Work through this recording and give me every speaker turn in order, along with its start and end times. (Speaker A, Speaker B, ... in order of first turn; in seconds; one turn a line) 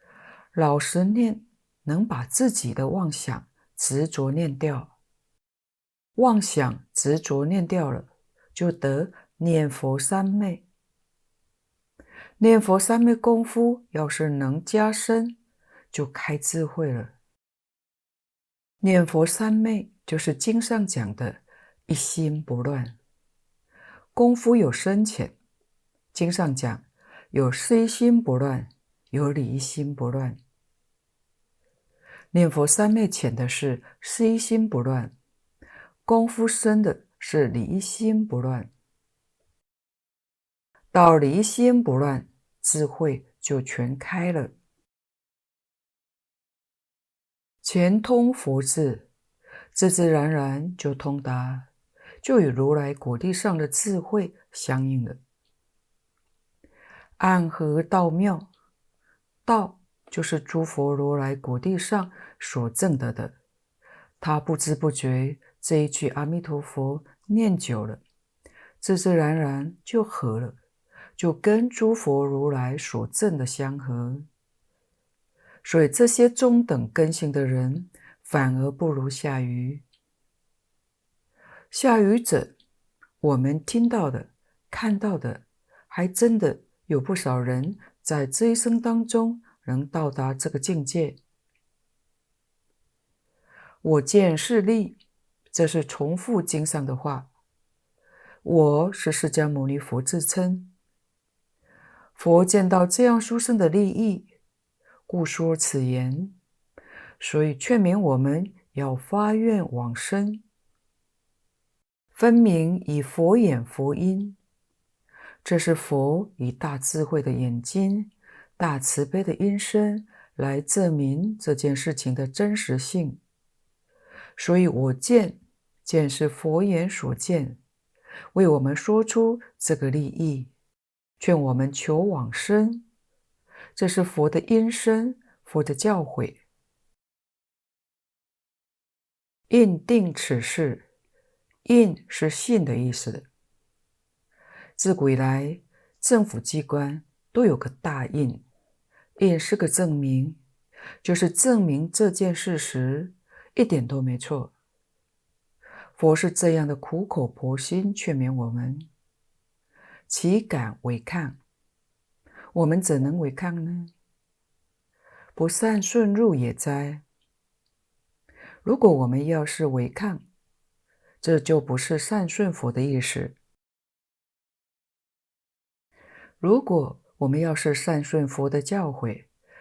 Speaker A: 0.5-4.9
Speaker A: 6.2-10.6
Speaker A: 12.4-15.4
Speaker A: 15.9-17.1
Speaker A: 18.8-23.0
Speaker A: 24.1-25.3
Speaker A: 26.1-30.4
Speaker A: 32.3-35.1
Speaker A: 36.0-38.7
Speaker A: 40.9-44.5
Speaker A: 47.6-49.1
Speaker A: 49.7-51.7
Speaker A: 52.2-55.2
Speaker A: 57.2-58.5
Speaker A: 59.5-63.3
Speaker A: 64.2-68.0
Speaker A: 68.8-70.6
Speaker A: 71.2-74.2
Speaker A: 75.6-79.8
Speaker A: 81.7-82.5
Speaker A: 83.2-91.2
Speaker A: 93.8-95.0
Speaker A: 95.5-97.3
Speaker A: 98.4-100.7
Speaker A: 102.2-104.3
Speaker A: 105.1-106.3
Speaker A: 107.2-110.4
Speaker A: 112.1-114.4
Speaker A: 115.4-123.2
Speaker A: 124.3-127.6
Speaker A: 128.3-130.5
Speaker A: 131.2-132.8
Speaker A: 133.8-136.4
Speaker A: 139.5-140.8
Speaker A: 141.6-143.3
Speaker A: 144.8-148.4
Speaker A: 149.2-150.4
Speaker A: 151.0-154.5
Speaker A: 155.9-158.9
Speaker A: 160.1-161.4
Speaker A: 162.5-163.9
Speaker A: 165.3-167.0
Speaker A: 168.6-170.2
Speaker A: 171.2-173.4
Speaker A: 176.4-179.3